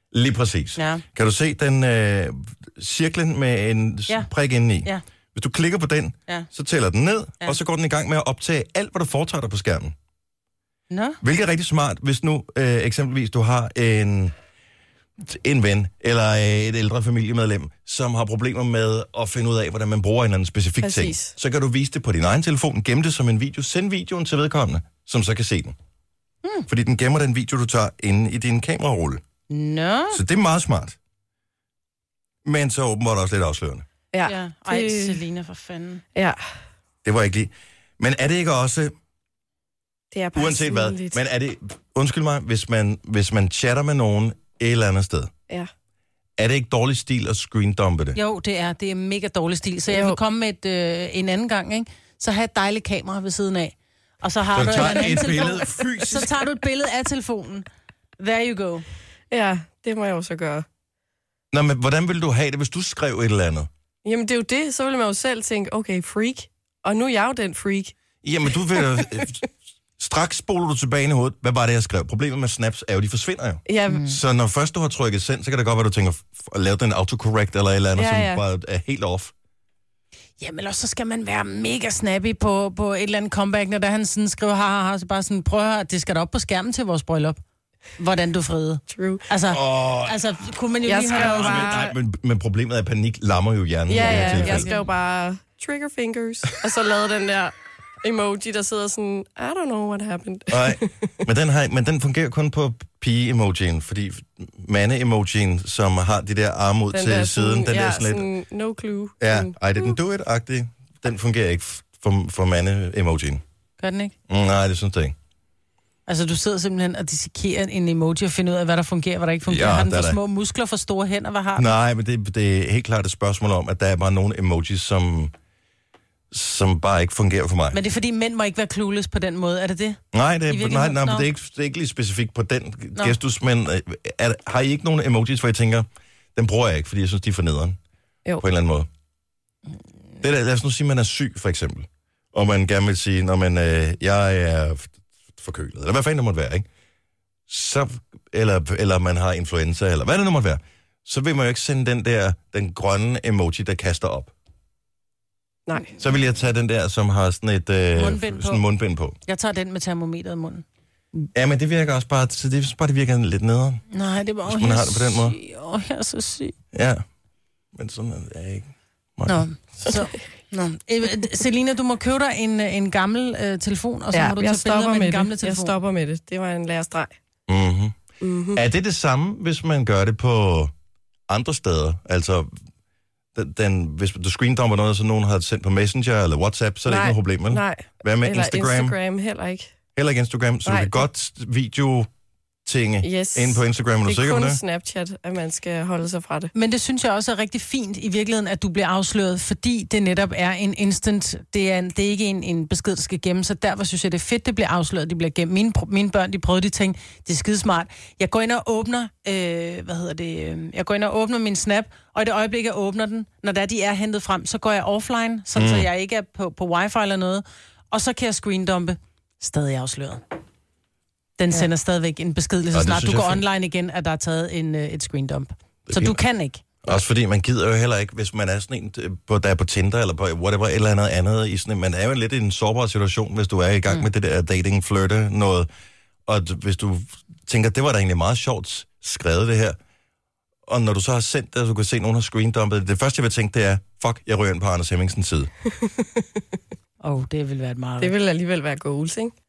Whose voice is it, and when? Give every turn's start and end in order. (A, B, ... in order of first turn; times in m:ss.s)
0:00.1-0:09.9 A
0:00.8-0:01.0 B
0:10.9-0:11.2 B
0:11.2-0:14.3 A
0:15.2-0:25.7 A
0:20.8-0:21.3 C
0:26.7-0:29.2 A
0:29.5-0:30.2 B
0:30.1-0:31.0 A
0:32.4-0:33.8 A
0:34.1-0:35.2 C
0:34.2-0:36.0 B
0:37.0-0:38.9 A
0:40.1-0:41.2 C
0:40.4-0:45.3 A
0:46.4-0:48.2 A
0:48.1-0:57.6 B
0:49.9-0:50.2 C
0:54.5-0:56.3 A
0:58.2-0:58.8 B
0:59.3-1:00.6 C
1:01.5-1:03.7 A
1:04.0-1:08.0 C
1:08.2-1:09.5 A
1:08.8-1:09.2 C
1:10.0-1:19.3 A
1:13.6-1:14.1 C
1:13.9-1:14.2 B
1:18.0-1:18.4 C
1:20.4-1:27.4 B
1:28.0-1:31.8 B
1:28.9-1:29.2 C
1:29.5-1:30.2 A
1:30.8-1:32.0 C
1:31.1-1:34.7 A
1:33.9-1:41.1 C
1:34.0-1:34.9 B
1:40.5-1:48.3 A
1:46.9-1:50.0 C
1:49.2-1:53.4 A
1:53.8-1:54.1 B
1:54.3-1:55.1 A
1:56.0-2:01.7 B
1:59.4-2:00.2 A
2:01.6-2:05.3 A
2:06.3-2:07.8 A
2:07.7-2:11.3 B
2:10.1-2:17.8 A
2:18.4-2:18.9 A
2:20.2-2:26.6 A
2:27.5-2:34.3 A
2:35.7-2:35.9 C
2:35.9-2:39.2 A
2:37.9-2:38.6 B
2:39.2-2:40.6 B
2:41.3-2:43.8 A
2:43.9-2:46.5 B
2:44.4-2:45.4 A
2:46.7-2:47.0 A
2:47.7-2:49.4 A
2:49.2-2:55.7 B
2:54.1-2:57.1 C
2:57.5-2:58.0 A
2:58.2-2:58.6 C
2:58.5-3:00.7 A
3:01.3-3:02.5 A
3:03.3-3:09.0 A
3:06.8-3:09.8 C
3:09.9-3:12.1 A
3:10.6-3:11.0 C
3:12.6-3:14.6 A
3:13.0-3:16.5 C
3:16.5-3:40.2 B
3:35.5-3:35.9 A
3:41.4-3:46.9 B
3:42.7-3:43.4 A
3:45.9-3:46.2 A
3:46.8-3:55.7 A
3:56.3-3:59.8 A
4:00.7-4:05.5 A
4:07.0-4:08.1 B
4:08.0-4:09.3 C